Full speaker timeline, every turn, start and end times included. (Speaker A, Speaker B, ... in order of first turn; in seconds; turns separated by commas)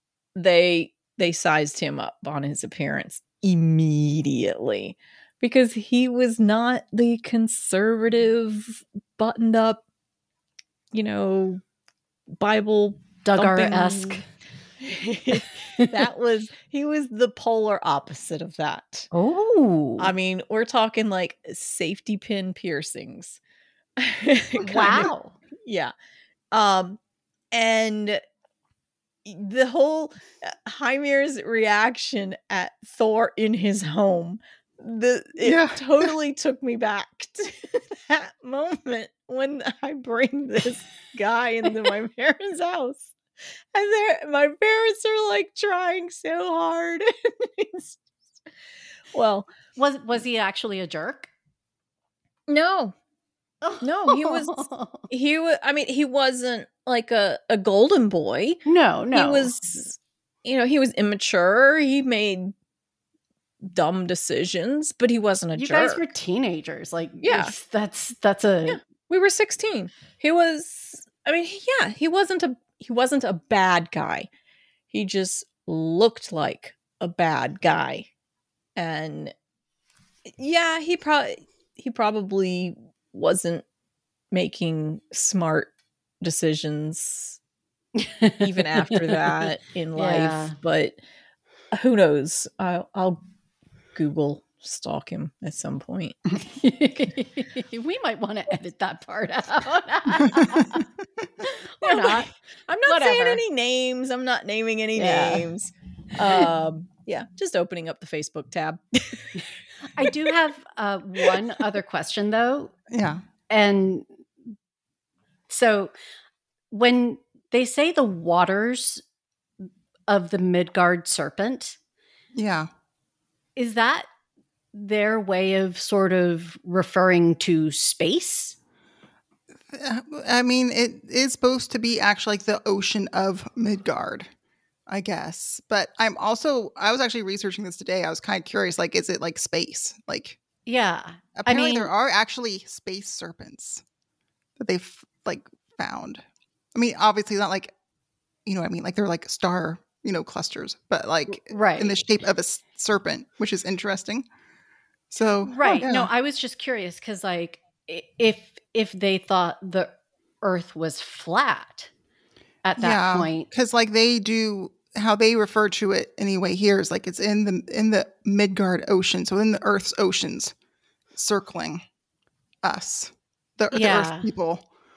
Speaker A: 0.3-9.8, Speaker A: 10.9-11.6, Speaker A: 12.4-14.2, Speaker B: 13.2-14.2, Speaker A: 14.8-19.1, Speaker B: 15.8-16.0, Speaker B: 19.1-20.1, Speaker A: 20.0-23.4, Speaker A: 24.0-25.1, Speaker B: 24.6-25.3, Speaker A: 25.6-25.9, Speaker A: 26.5-27.0, Speaker A: 27.5-28.2, Speaker A: 29.2-43.1, Speaker C: 35.4-36.1, Speaker A: 43.7-48.0, Speaker A: 49.1-49.5, Speaker B: 49.8-51.3, Speaker A: 52.5-52.9, Speaker B: 53.6-55.0, Speaker A: 53.8-58.6, Speaker B: 58.6-59.5, Speaker A: 59.1-62.5, Speaker A: 63.7-66.1, Speaker B: 65.6-68.8, Speaker A: 67.2-67.5, Speaker A: 68.7-74.3, Speaker A: 74.9-78.1, Speaker A: 78.8-79.3, Speaker A: 80.4-83.6, Speaker A: 84.3-87.4, Speaker B: 88.0-90.5, Speaker A: 88.4-91.0, Speaker A: 91.7-93.2, Speaker A: 93.9-96.2, Speaker B: 96.4-100.8, Speaker B: 101.4-102.3, Speaker A: 101.8-109.4, Speaker B: 102.9-103.4, Speaker B: 105.0-105.5, Speaker B: 109.9-112.7, Speaker C: 112.9-113.2, Speaker B: 113.5-114.0, Speaker B: 115.5-115.9, Speaker B: 116.7-119.0, Speaker B: 120.1-121.8, Speaker C: 122.3-122.7, Speaker B: 123.5-124.1, Speaker B: 124.7-128.6, Speaker C: 129.7-134.3, Speaker C: 134.9-140.4, Speaker B: 140.7-141.9, Speaker C: 141.3-143.8, Speaker C: 144.6-146.2, Speaker C: 146.7-147.7, Speaker C: 148.4-154.2, Speaker B: 151.3-152.0, Speaker C: 155.1-156.1, Speaker B: 155.4-161.9, Speaker B: 162.6-163.5, Speaker C: 162.8-170.5, Speaker C: 171.1-171.8, Speaker C: 172.6-174.6, Speaker B: 173.7-174.3